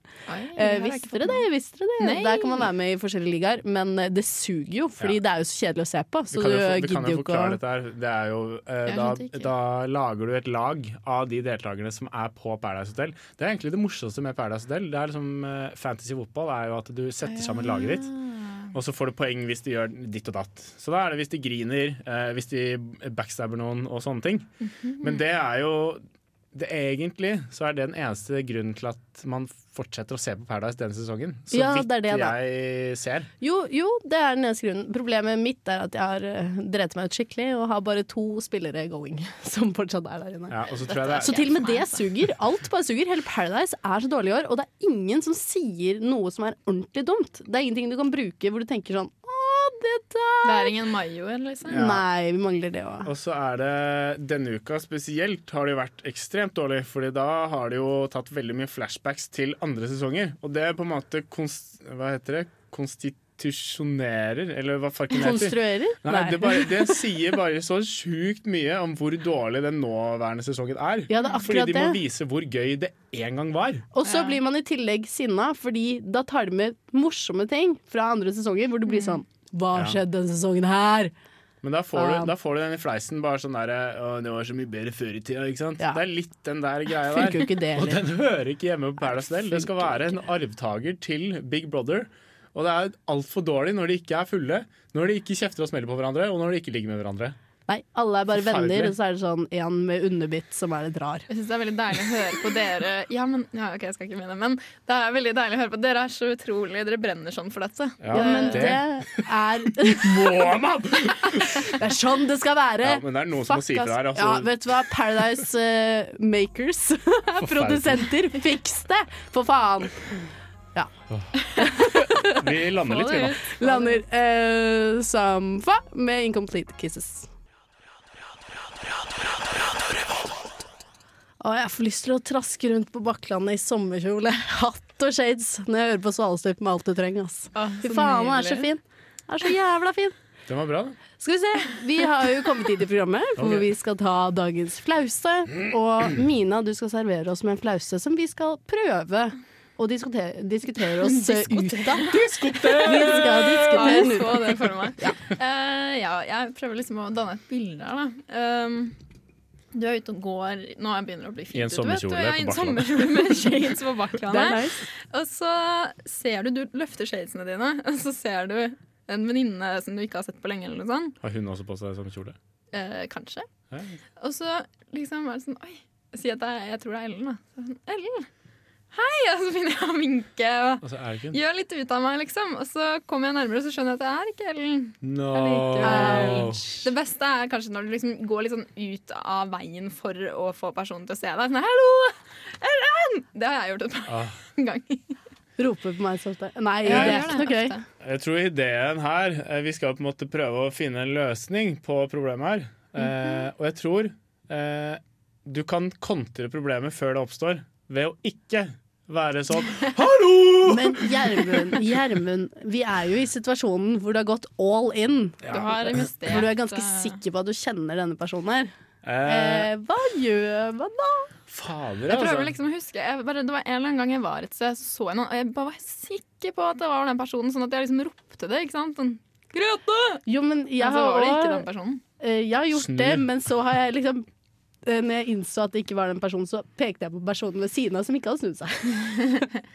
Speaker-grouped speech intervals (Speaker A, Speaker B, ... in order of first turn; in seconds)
Speaker A: 0.3-1.4, 2.0-2.7, 8.8-9.5, 17.2-18.7, 24.8-25.2, 40.8-42.0, 50.4-51.9, 74.0-74.4, 78.9-79.2, 101.3-108.7, 121.5-121.8, 122.7-124.0, 137.5-138.7, 151.0-152.2, 153.7-158.9, 159.7-171.2, 172.7-173.5, 174.2-178.3, 178.9-195.2, 196.8-197.8, 215.5-217.2, 222.1-230.2, 230.8-232.0
Speaker B: 0.5-7.6, 31.5-32.4, 33.4-40.6, 41.2-50.7, 51.7-53.1, 65.1-67.0, 71.1-72.0, 73.9-81.1, 81.9-82.3, 87.1-88.0, 89.3-90.2, 97.7-101.3, 108.1-110.6, 111.3-120.2, 121.6-122.3, 123.6-127.3, 131.4-140.1, 141.2-155.2, 164.3-164.8, 185.8-186.9, 195.6-197.8, 210.6-218.7, 219.2-221.3, 230.2-231.7, 232.2-234.3, 234.8-239.5
Speaker C: 6.3-18.1, 18.7-24.5, 25.0-33.3, 40.5-41.4, 51.7-52.0, 53.0-73.9, 81.6-97.3, 98.3-98.9, 108.0-109.2, 109.9-111.7, 112.8-114.5, 117.4-118.1, 121.1-123.4, 140.5-141.0, 143.4-143.7, 152.0-154.3, 161.5-163.1, 171.2-172.4, 173.7-174.0, 180.8-181.4, 185.0-186.6, 194.1-194.3, 196.9-197.3, 198.0-211.8, 215.4-216.1, 219.0-219.7, 221.5-222.5, 232.7-233.3